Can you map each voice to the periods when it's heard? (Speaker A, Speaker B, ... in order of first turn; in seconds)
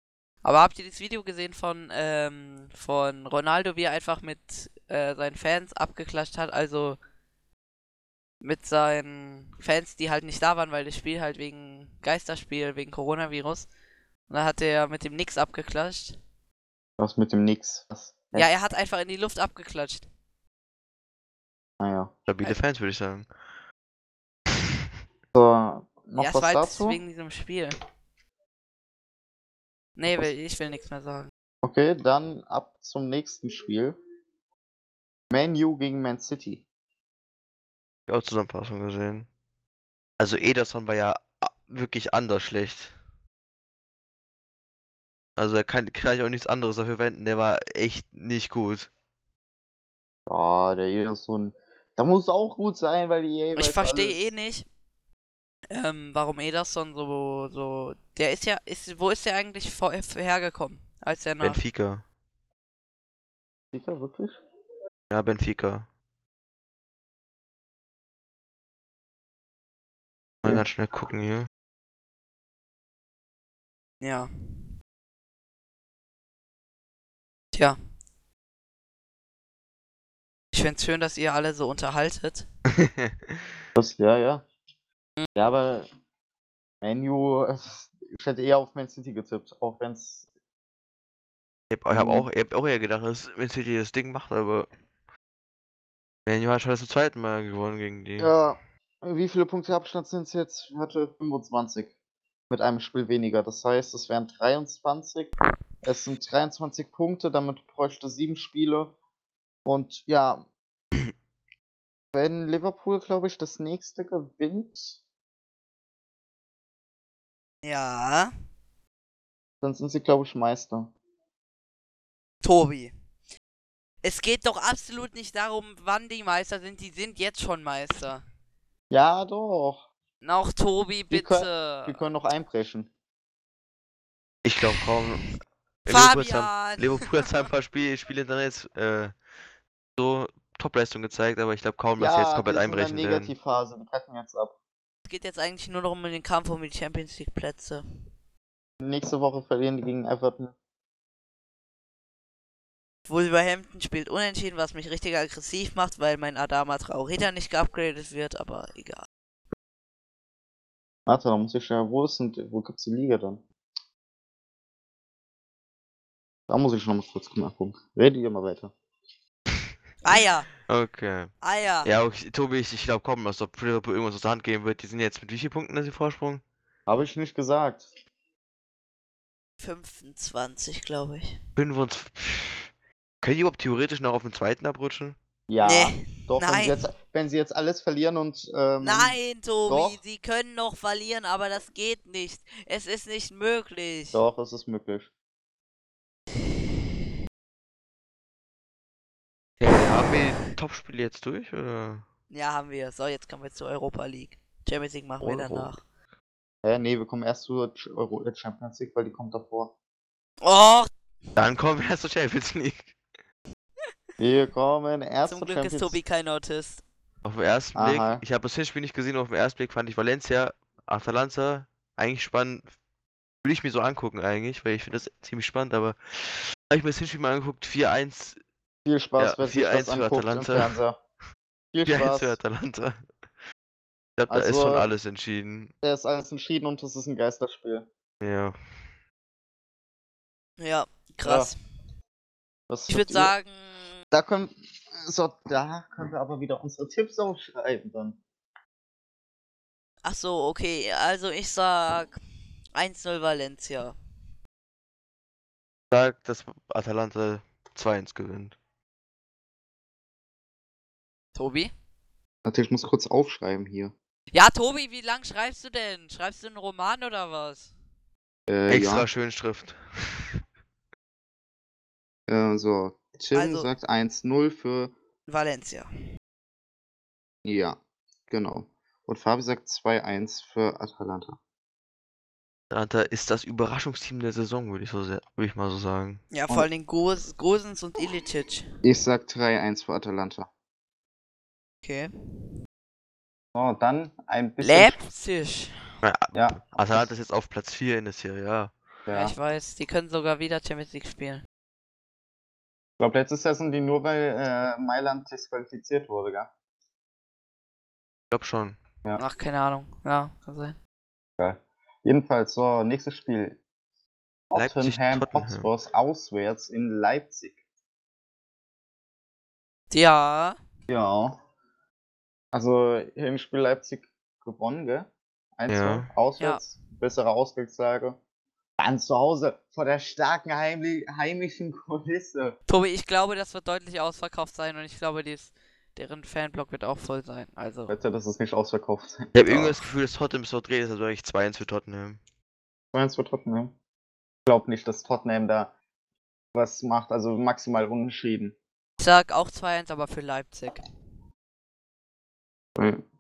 Speaker A: 0.4-7.0, 8.4-13.7, 14.3-16.2, 18.3-20.1, 26.2-27.7, 30.0-31.3, 53.6-54.7, 55.7-61.6, 74.0-74.3, 80.5-82.5, 117.6-118.3, 122.4-122.9, 124.0-128.2, 130.2-132.0, 135.9-137.1, 145.1-147.8, 153.1-159.1, 170.0-170.5, 171.4-171.9, 179.6-181.4, 185.6-186.9, 188.8-194.2, 202.3-205.8, 210.4-210.9, 215.3-216.8, 240.6-241.6, 242.9-244.0, 250.0-252.2, 252.8-254.0, 261.4-261.7, 264.3-267.7, 273.3-273.7, 275.3-275.9, 286.3-288.7, 291.8-292.1, 294.6-295.8, 299.1-301.4, 309.2-310.8, 319.9-320.6, 332.7-337.9, 349.0-350.8
Speaker B: 17.0-18.5, 21.8-22.1, 25.3-27.0, 31.6-34.0, 35.3-36.6, 50.3-54.2, 63.7-64.4, 83.8-84.4, 85.4-85.9, 86.8-90.3, 91.9-92.3, 98.2-101.9, 102.5-109.0, 109.7-110.5, 112.1-115.0, 119.6-120.9, 128.9-129.8, 131.1-132.9, 142.0-144.6, 148.8-150.5, 161.1-163.4, 166.5-168.7, 176.9-177.9, 185.5-189.2, 189.7-190.0, 194.1-195.1, 206.6-209.7, 214.2-216.0, 217.8-218.2, 228.9-231.0, 231.7-232.4, 234.3-234.9, 235.8-237.9, 241.2-241.5, 242.7-243.3, 244.1-248.2, 262.4-263.9, 268.5-269.1, 272.3-274.9, 277.4-277.8, 278.3-281.4, 288.8-290.5, 293.6-295.0, 296.3-297.1, 299.1-299.3, 303.0-306.5, 311.4-313.6, 314.5-317.6, 320.9-321.4, 322.5-328.2, 328.8-332.6, 337.9-339.8, 342.9-343.7, 344.5-345.7, 346.5-348.6, 352.8-353.0
Speaker C: 22.3-23.3, 38.1-39.3, 40.2-42.9, 45.4-48.9, 61.4-62.0, 65.1-65.9, 70.4-71.5, 82.8-83.4, 91.7-94.7, 96.3-98.3, 134.4-139.1, 140.0-143.3, 170.7-171.3, 171.8-176.4, 181.6-182.7, 183.2-185.2, 199.6-202.1, 205.2-205.7, 211.4-212.9, 217.2-222.7, 223.4-228.4, 229.2-230.8, 231.8-233.0, 234.2-235.7, 238.2-238.6, 255.9-258.6, 268.7-270.4, 282.7-286.2, 296.0-298.7, 308.3-308.8, 314.6-315.7, 325.7-326.1, 339.3-342.2